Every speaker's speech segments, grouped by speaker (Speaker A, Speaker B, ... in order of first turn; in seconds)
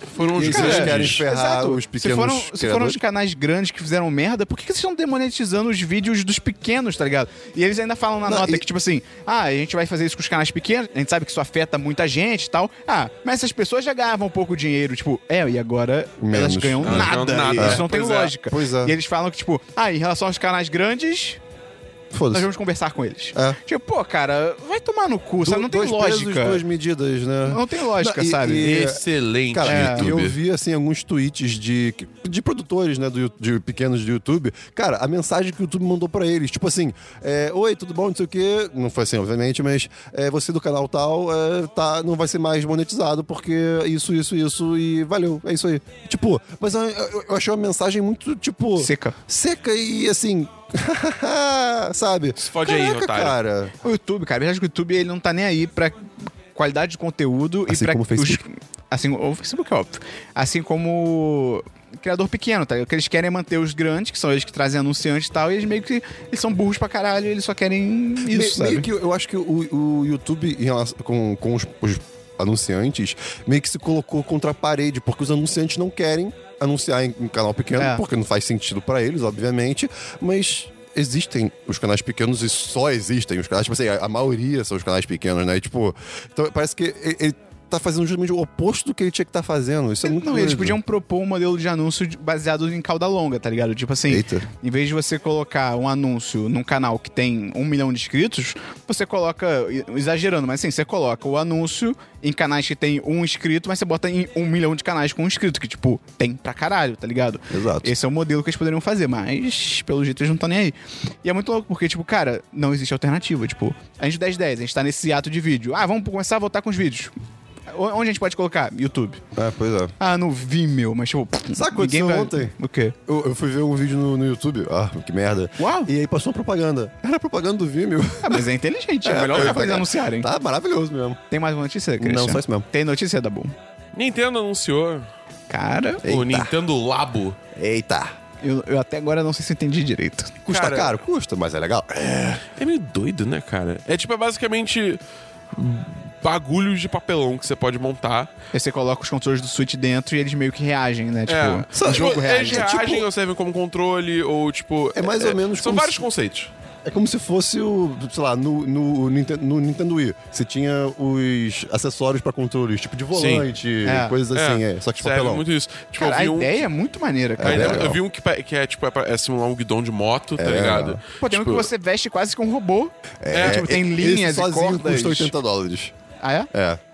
Speaker A: 0.1-1.2, 16.8-18.3, 28.6-30.4, 52.4-53.3, 133.9-135.1, 136.0-137.4, 140.5-140.9, 142.0-145.0, 145.5-148.3, 151.3-156.5, 163.1-163.5, 164.3-166.7, 167.4-171.7, 173.3-173.7
Speaker B: 0.3-3.0, 8.2-8.6, 16.2-18.9, 22.1-22.5, 25.4-53.7, 57.7-58.4, 68.3-90.8, 94.1-94.5, 107.5-107.9, 119.3-119.9, 121.5-128.5, 129.0-131.2, 132.0-132.7, 136.0-136.5, 137.5-138.1, 140.4-142.0, 151.7-153.0, 154.9-156.0, 156.8-165.4, 167.4-168.0, 170.4-171.0, 173.2-175.9, 176.5-176.8
Speaker C: 0.3-21.4, 22.3-26.6, 27.4-28.7, 29.6-30.1, 48.8-49.1, 53.8-56.0, 56.5-68.9, 77.8-78.0, 90.0-117.1, 117.7-119.2, 120.0-123.0, 125.6-125.9, 128.2-130.3, 131.3-133.5, 135.5-136.0, 138.4-140.4, 148.5-152.9, 163.8-164.2, 165.9-167.8, 171.2-175.3, 176.2-176.5